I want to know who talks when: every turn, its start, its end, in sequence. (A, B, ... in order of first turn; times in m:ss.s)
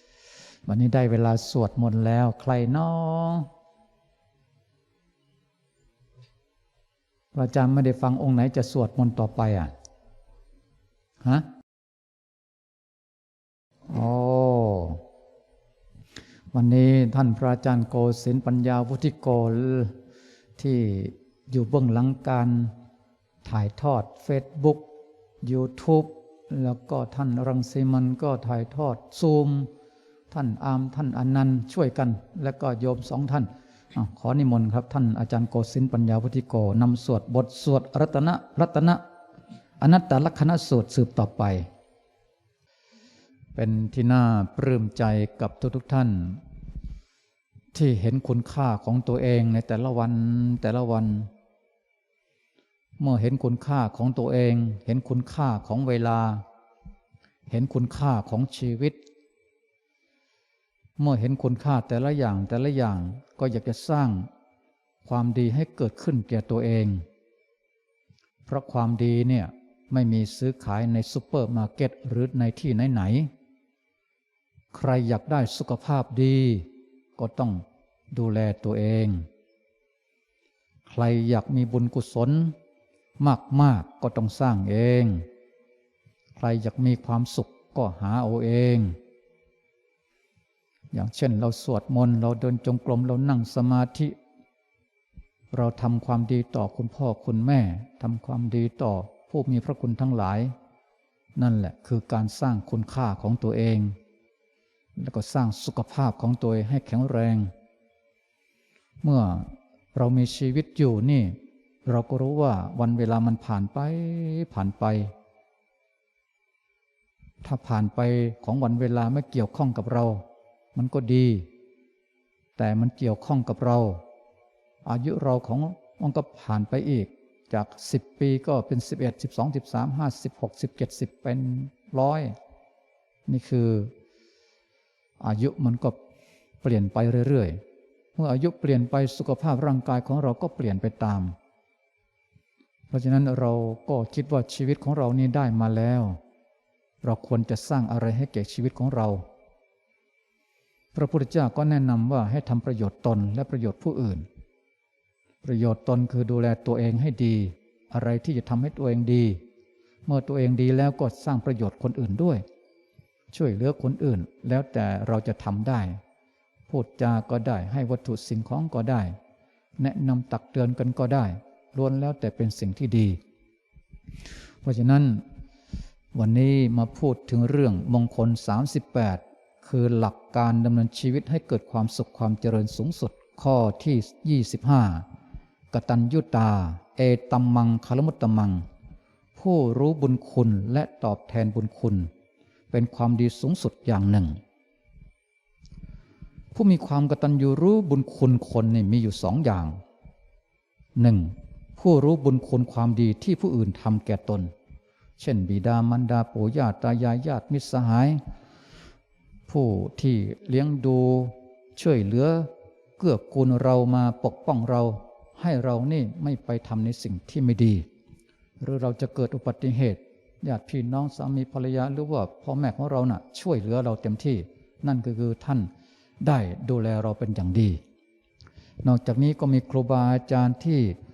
0:00.6-0:03.5 A
0:07.3-0:09.7 A
0:11.2-0:11.5 A
0:13.9-0:15.0 A
0:16.5-0:19.9 A
0:20.6-0:22.7 A
0:23.4-0:24.8 A
0:25.4-0:29.7 A
0:30.3-0:39.0 A
0:39.8-0:41.7 A
0:43.5-0:46.4 A
0:47.7-0:51.3 A
0:53.0-0:56.4 A
0:57.5-0:59.0 A
1:01.0-1:04.3 A
1:05.0-1:07.0 A
1:08.5-1:13.3 A
1:14.7-1:19.2 A
1:20.8-1:22.5 A
1:23.2-1:25.2 A
1:26.4-1:29.0 A
1:30.9-1:34.1 A
1:35.5-1:40.5 A
1:41.4-1:43.9 A
1:45.0-1:47.5 A
1:49.0-1:55.1 A
1:57.4-2:01.5 A
2:02.6-2:04.0 A
2:04.8-2:12.3 A
2:13.3-2:13.9 A
2:15.2-2:16.0 A
2:16.6-2:17.6 A
2:18.2-2:21.3 A
2:22.9-2:26.2 A
2:27.0-2:29.2 A
2:30.9-2:34.2 A
2:35.4-2:39.4 A
2:40.0-2:42.4 A
2:43.3-2:46.0 A
2:46.7-2:49.1 A
2:49.8-2:53.2 A
2:54.6-2:55.2 A
2:56.1-3:05.0 A
3:05.7-3:08.6 A
3:09.4-3:12.1 A
3:12.7-3:14.4 A
3:16.5-3:19.8 A
3:21.0-3:24.5 A
3:25.2-3:28.2 A
3:29.5-3:37.8 A
3:38.6-3:45.7 A
3:46.2-3:47.8 A
3:48.8-3:51.0 A